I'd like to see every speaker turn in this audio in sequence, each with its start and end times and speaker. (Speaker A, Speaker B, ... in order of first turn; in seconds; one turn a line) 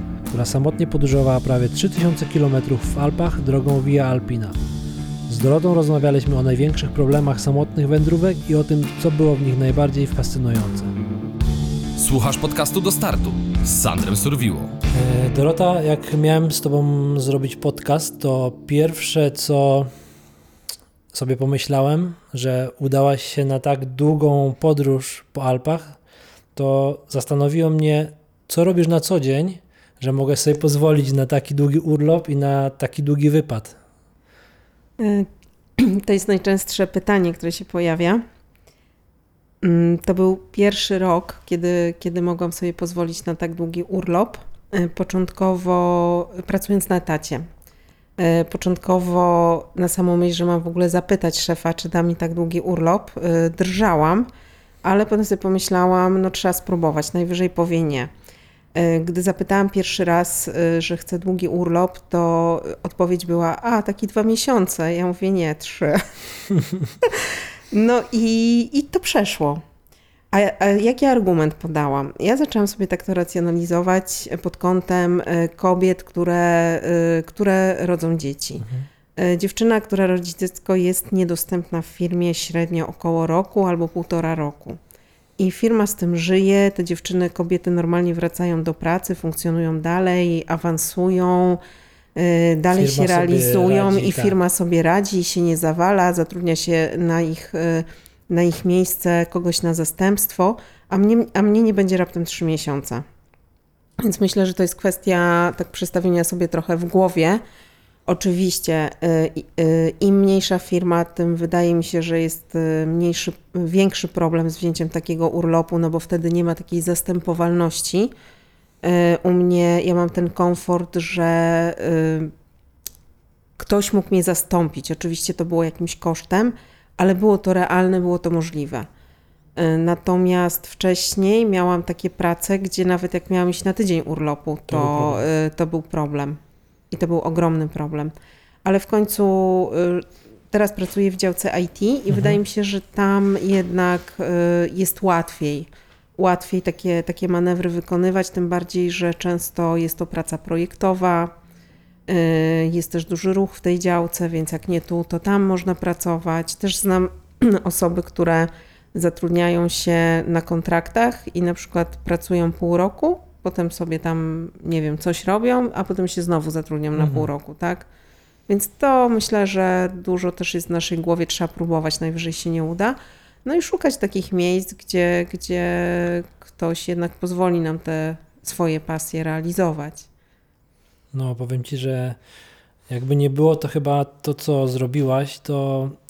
Speaker A: 0.3-4.6
Speaker A: 5.3-10.9
Speaker B: 12.0-14.8
Speaker A: 14.9-19.9
Speaker A: 21.1-26.0
Speaker A: 26.6-33.8
Speaker C: 35.0-38.2
Speaker C: 39.6-47.5
Speaker C: 48.2-54.3
Speaker C: 54.8-58.1
Speaker C: 58.7-66.1
Speaker C: 67.0-69.6
Speaker C: 70.3-78.7
Speaker A: 78.6-78.9
Speaker C: 79.2-84.8
Speaker C: 85.4-91.6
Speaker C: 92.2-103.0
Speaker A: 92.7-94.4
Speaker C: 104.0-107.4
Speaker C: 108.1-118.1
Speaker C: 118.8-122.3
Speaker C: 123.6-128.9
Speaker C: 129.6-136.4
Speaker A: 134.7-135.2
Speaker C: 136.9-138.1
Speaker C: 138.7-151.3
Speaker A: 142.1-142.4
Speaker C: 152.1-167.9
Speaker A: 167.0-167.3
Speaker C: 168.5-180.1
Speaker A: 181.1-182.2
Speaker A: 182.9-186.0